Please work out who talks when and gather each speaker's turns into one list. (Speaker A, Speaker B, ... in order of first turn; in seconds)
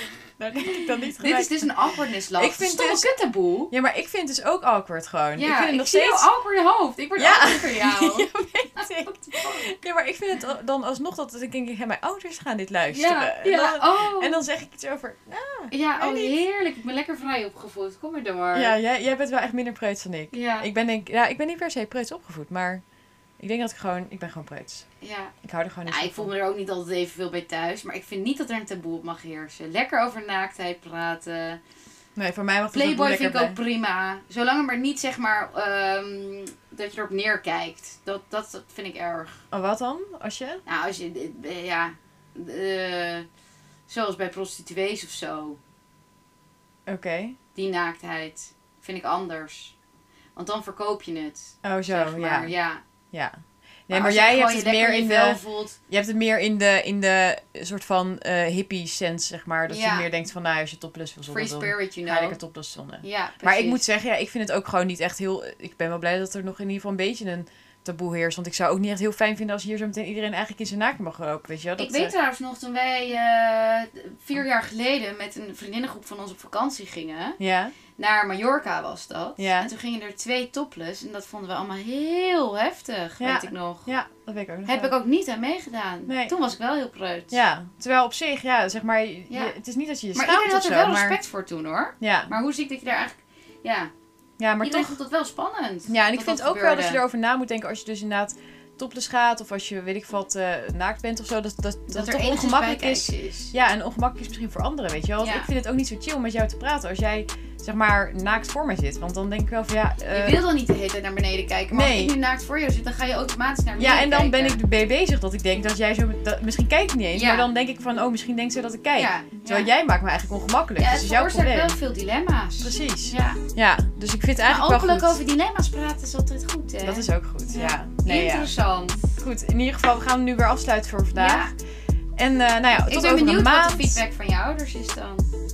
Speaker A: 0.4-1.7, 2.4-3.1, 3.7-6.3, 7.2-16.3, 18.5-22.8, 23.4-24.8, 25.4-26.3, 32.1-33.6, 39.5-40.6, 46.9-47.4, 51.6-52.5, 53.1-72.1, 77.4-77.7, 79.4-79.7, 83.2-84.9, 86.1-86.3, 87.3-91.2, 92.0-92.3, 94.4-95.0, 95.9-110.4, 111.7-112.1, 113.8-121.8, 122.6-125.2, 126.8-128.5, 129.2-131.5, 132.2-134.0
Speaker B: 0.7-3.7, 5.3-8.3, 8.8-9.7, 12.9-14.4, 15.7-18.7, 20.3-20.7, 25.0-25.3, 25.9-31.6, 32.7-39.4, 40.6-43.2, 43.9-45.6, 47.5-49.7, 50.4-52.8, 53.9-55.8, 59.7-60.1, 61.3-62.4, 63.0-63.8, 71.8-77.4, 78.0-83.9, 84.7-87.3, 90.1-93.9, 94.6-97.0, 101.9-103.5, 105.2-105.5, 110.1-114.6, 117.1-117.5, 119.0-119.7, 120.8-123.4, 124.4-129.0, 131.2-131.5, 132.9-135.3